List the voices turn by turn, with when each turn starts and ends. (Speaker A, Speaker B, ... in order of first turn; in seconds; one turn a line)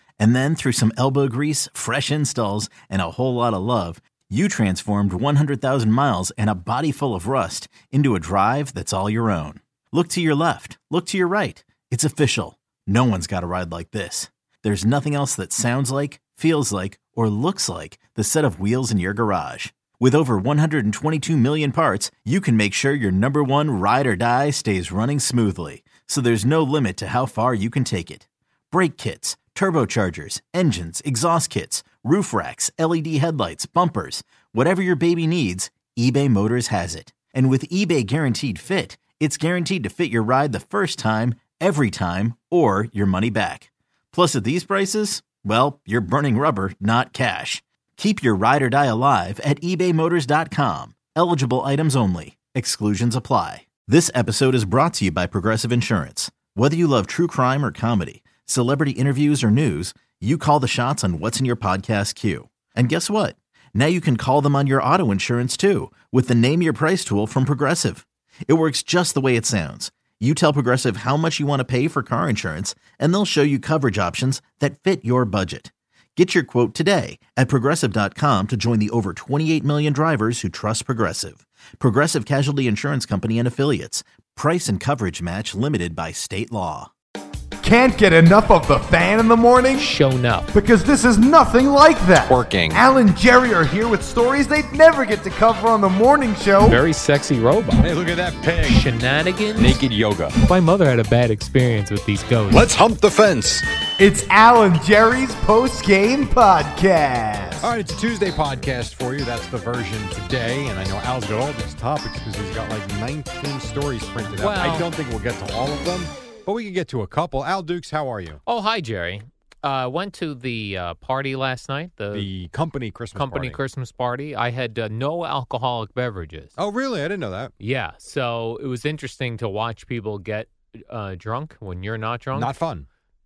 Speaker A: 0.2-86.9
Speaker B: 87.6-89.9
Speaker C: 89.8-90.5
Speaker B: 90.5-96.8
Speaker D: 92.3-92.8
Speaker C: 96.6-97.9
Speaker D: 97.8-98.9
Speaker C: 98.7-99.8
Speaker D: 99.6-100.3
Speaker C: 100.4-102.7
Speaker D: 102.5-103.7
Speaker B: 104.0-107.7
Speaker D: 107.6-118.4
Speaker C: 114.4-114.9
Speaker C: 118.5-122.3
Speaker D: 122.1-123.6
Speaker C: 123.2-126.6
Speaker D: 126.6-127.5
Speaker C: 127.6-132.5
Speaker D: 132.3-132.9